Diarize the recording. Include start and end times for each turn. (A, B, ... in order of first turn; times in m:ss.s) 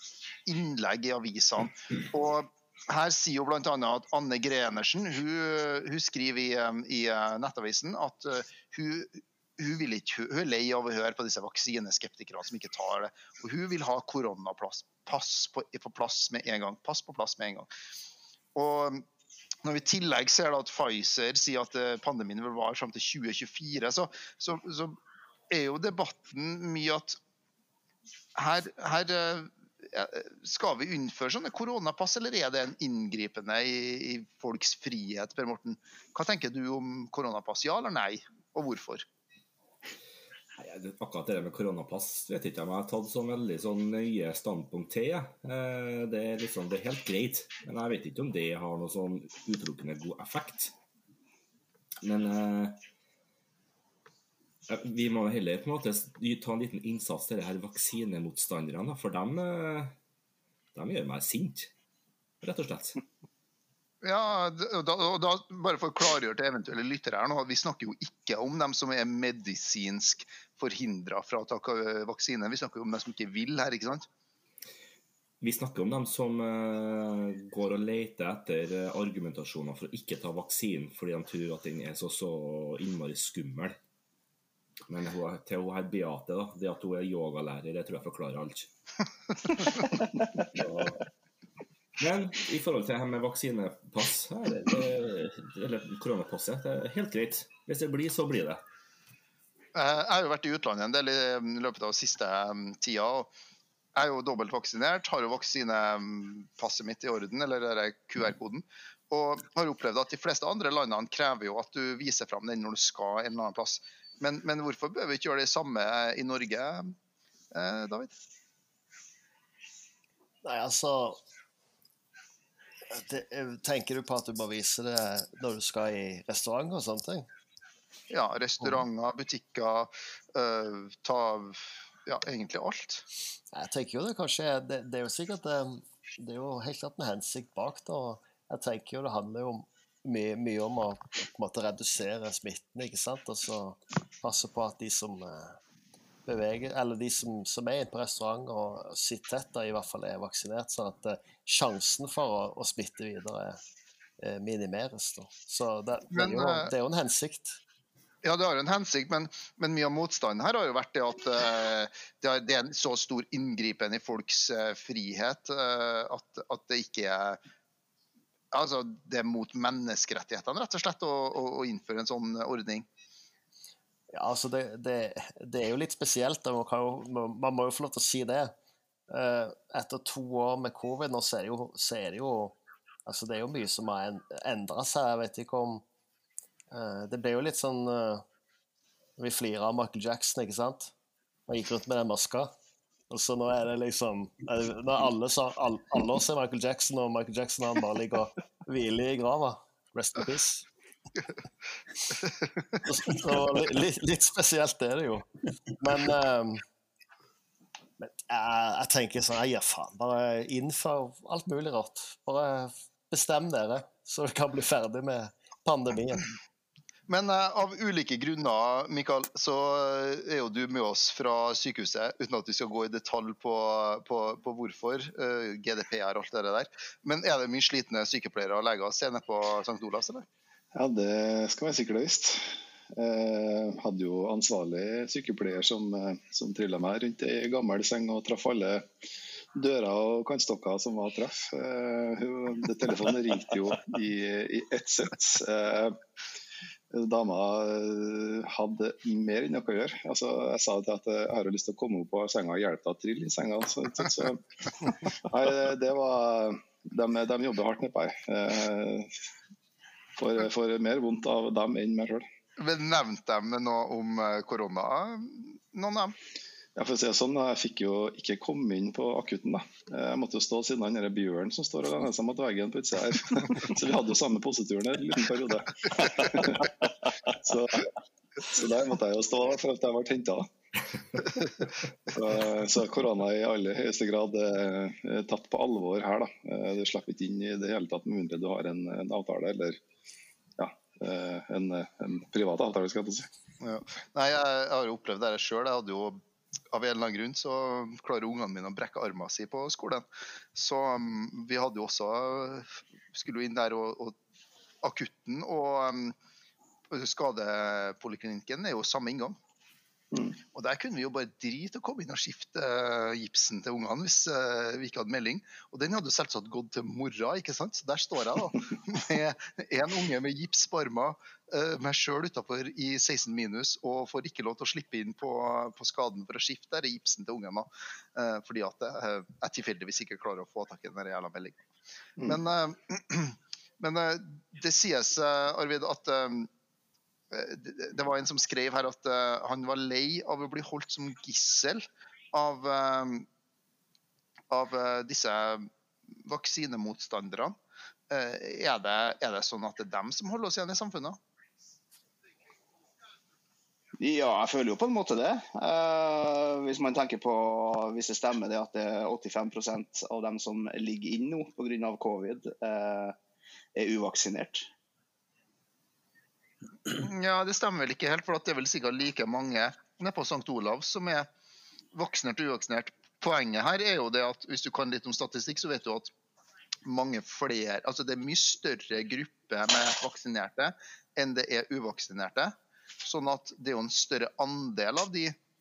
0:00.5-0:17.7 A
0:18.6-0:19.0 A
0:19.6-0:25.0 A
0:25.5-0:27.2 A
0:28.4-0:39.0 A
0:40.6-0:50.7 B
0:52.0-0:52.8 B
0:54.7-1:00.0 B
1:00.7-1:01.7 B
1:02.4-1:03.0 B
1:04.0-1:14.1 A
1:15.4-1:23.8 B
1:24.9-1:28.7 B
1:30.5-1:31.0 B
1:32.0-1:38.6 B
1:39.7-1:43.3 A
1:44.0-1:56.9 A
1:57.5-1:58.1 A
2:00.4-2:01.2 C
2:02.9-2:07.3 C
2:08.1-2:13.0 A
2:13.5-2:25.6 C
2:26.3-2:33.6 C
2:34.2-2:37.6 C
2:36.1-2:36.7 A
2:38.2-2:47.4 A
2:48.5-2:52.9 A
2:54.1-2:58.5 C
2:59.1-3:05.8 C
3:06.7-3:08.2 C
3:09.2-3:10.9 C
3:11.5-3:12.5 C
3:13.1-3:20.7 C
3:22.8-3:25.3 C
3:25.8-3:26.6 C
3:28.0-3:36.3 C
3:37.1-3:50.3 A
3:50.7-3:58.9 D
3:59.6-4:06.0 D
4:06.9-4:14.4 D
4:15.2-4:19.1 D
4:20.2-4:22.2 D
4:22.6-4:26.2 A
4:26.8-4:36.7 D
4:37.3-4:37.9 D
4:38.5-4:40.5 D
4:42.1-4:49.8 D
4:50.6-4:53.3 D
4:53.6-5:04.2 A
5:04.8-5:06.2 A
5:06.9-5:09.4 A
5:10.5-5:31.6 A
5:32.2-5:36.5 A
5:37.3-5:43.3 A
5:44.5-5:45.7 A
5:46.2-5:47.6 A
5:48.1-5:51.2 A
5:54.0-6:03.2 E
6:03.8-6:04.7 E
6:06.9-6:11.3 A
6:11.9-6:16.1 A
6:16.9-6:25.4 A